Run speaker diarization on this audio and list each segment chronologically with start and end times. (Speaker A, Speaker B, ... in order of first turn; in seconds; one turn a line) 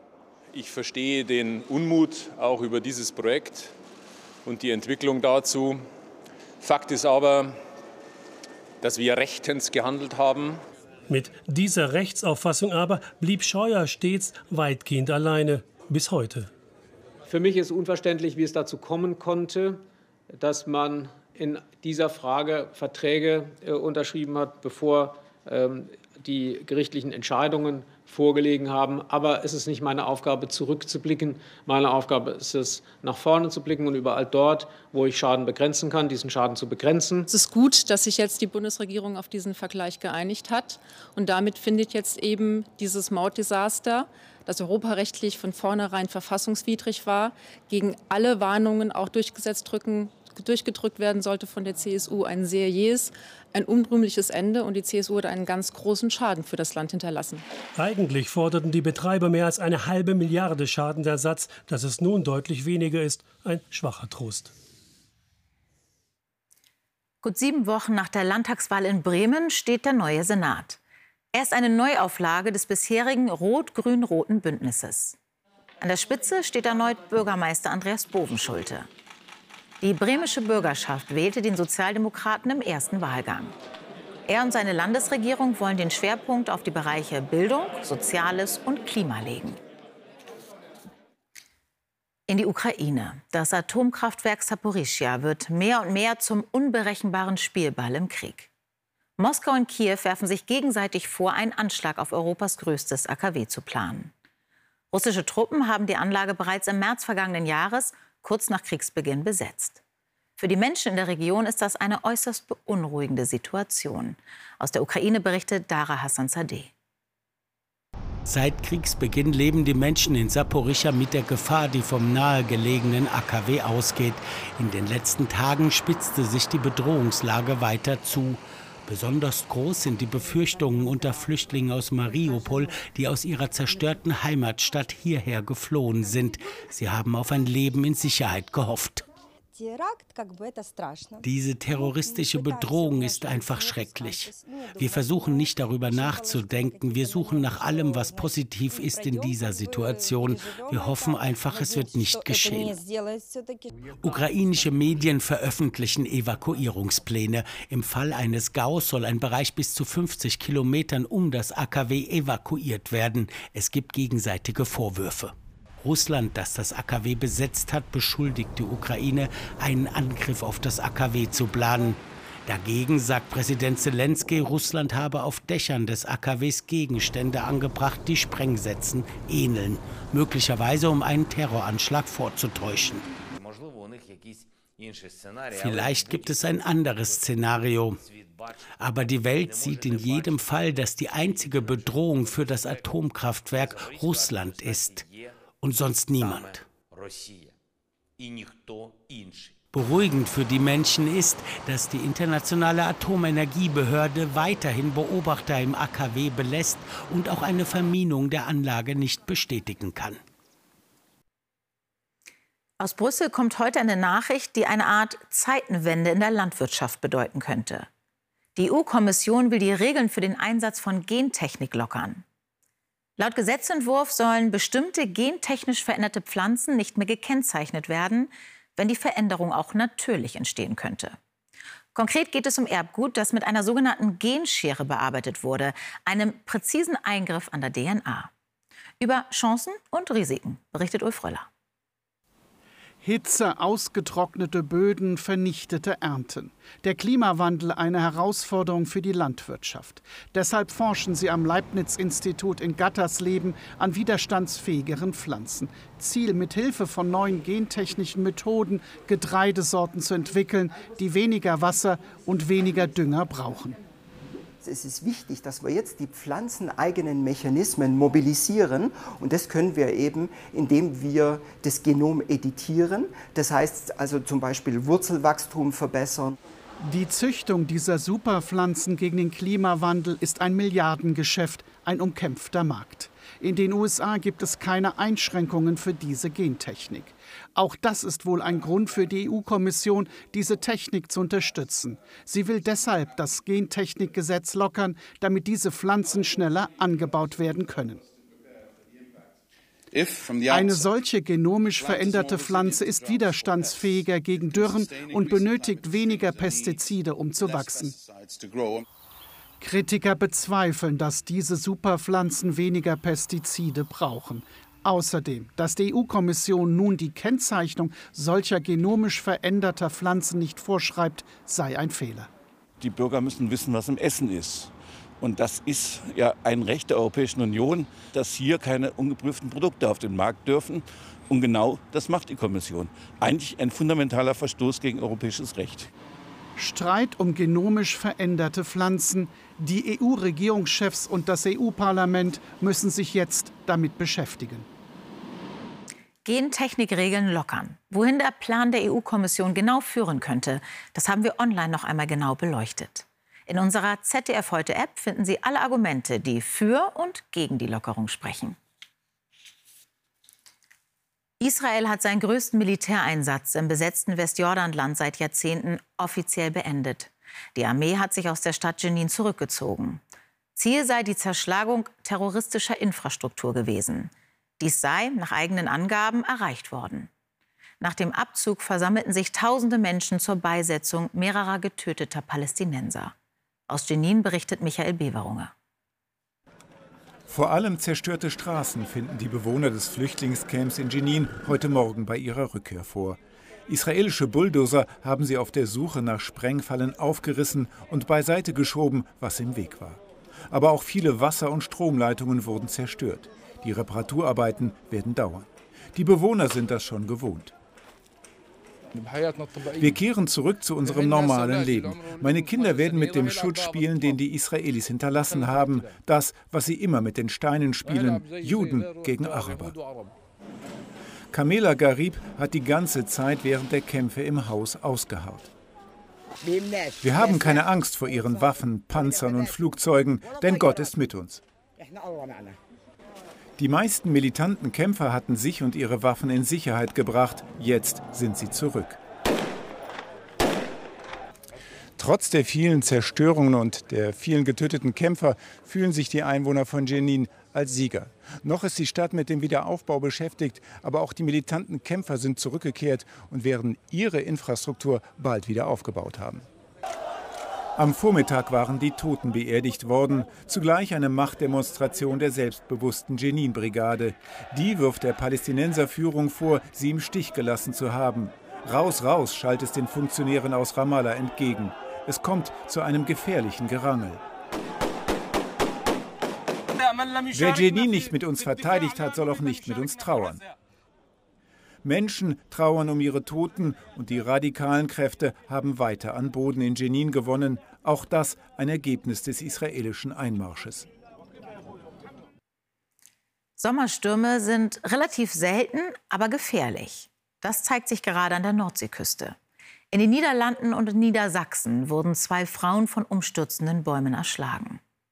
Speaker A: 0.5-3.7
Speaker A: 4.5-5.9
Speaker A: 6.6-7.6
Speaker A: 8.8-10.6
Speaker B: 11.1-16.5
Speaker C: 17.3-37.3
Speaker D: 37.3-57.5
Speaker B: 57.8-64.5
Speaker E: 67.2-70.8
Speaker E: 71.3-75.2
Speaker E: 75.8-78.9
Speaker E: 79.8-83.5
Speaker E: 84.3-89.6
Speaker E: 92.3-98.5
Speaker E: 99.2-104.1
Speaker E: 104.9-109.8
Speaker E: 110.4-116.7
Speaker F: 118.3-139.1
Speaker F: 141.2-152.8
Speaker F: 154.0-183.1
Speaker F: 185.5-188.1
Speaker F: 188.8-196.7
Speaker F: 199.7-210.2
Speaker E: 212.8-217.9
Speaker E: 218.6-222.2
Speaker E: 223.2-231.2
Speaker E: 231.9-238.3
Speaker E: 239.0-241.5
Speaker G: 243.0-263.8
Speaker H: 264.6-276.4
Speaker G: 276.8-298.0
Speaker G: 300.5-308.0
Speaker G: 309.6-322.3
Speaker I: 322.8-335.9
Speaker G: 336.6-344.7
Speaker E: 346.2-358.6
Speaker E: 361.4-370.0
Speaker E: 370.6-377.1
Speaker E: 377.8-383.1
Speaker E: 383.7-385.5
Speaker J: 387.3-407.5
Speaker J: 409.8-419.8
Speaker A: 412.6-413.1
Speaker A: 418.2-418.8
Speaker J: 421.3-425.5
Speaker J: 427.0-431.4
Speaker J: 433.6-439.0
Speaker J: 442.0-456.5
Speaker J: 457.8-474.2
Speaker J: 477.3-480.4
Speaker J: 481.8-490.9
Speaker E: 493.6-499.4
Speaker E: 499.9-504.8